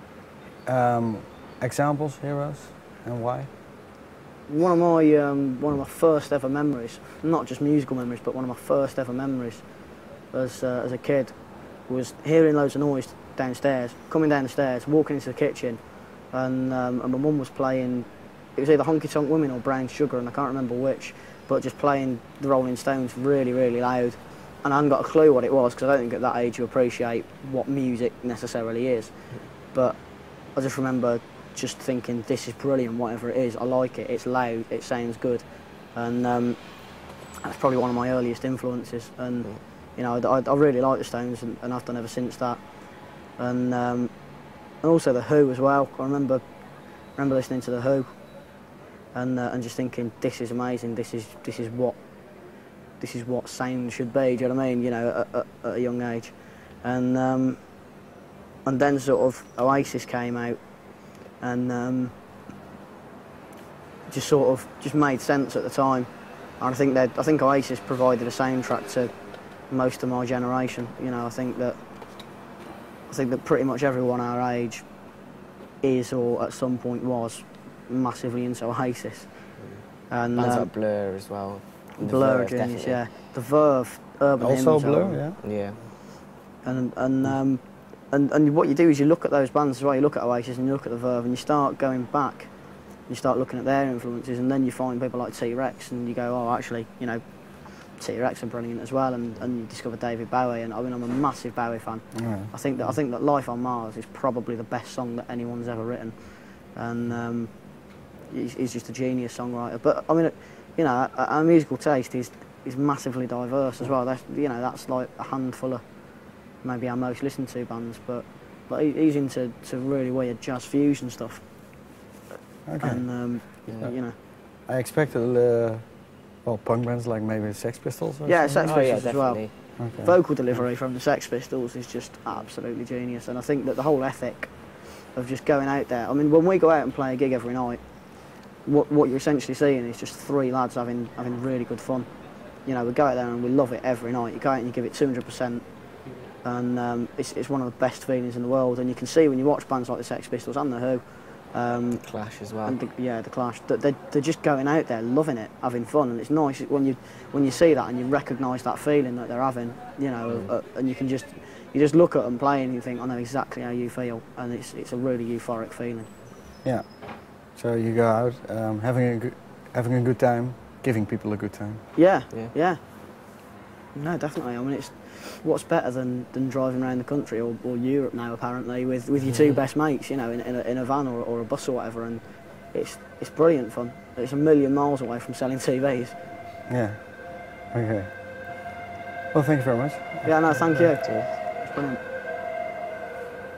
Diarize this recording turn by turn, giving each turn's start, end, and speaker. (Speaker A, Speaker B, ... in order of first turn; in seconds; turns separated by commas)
Speaker A: 0.7-3.5, Speaker B: 4.5-9.7, Speaker B: 10.3-48.3, Speaker B: 49.1-52.1, Speaker B: 53.0-57.8, Speaker B: 58.6-62.2, Speaker B: 64.1-72.3, Speaker B: 73.1-75.0, Speaker B: 75.8-80.7, Speaker C: 79.6-83.1, Speaker B: 82.0-85.2, Speaker A: 84.4-85.4, Speaker C: 85.4-85.9, Speaker B: 86.6-107.7, Speaker A: 102.1-102.5, Speaker B: 108.3-116.0, Speaker B: 116.5-121.8, Speaker A: 122.7-128.7, Speaker B: 122.8-124.2, Speaker B: 128.2-142.1, Speaker C: 128.6-129.8, Speaker A: 129.8-130.2, Speaker B: 142.6-145.8, Speaker B: 146.4-166.2, Speaker C: 151.9-152.8, Speaker C: 160.3-160.5, Speaker A: 166.6-171.9, Speaker B: 171.9-173.2, Speaker B: 173.9-186.3, Speaker A: 186.7-188.2, Speaker A: 189.3-190.6, Speaker B: 190.2-192.0, Speaker C: 191.0-191.3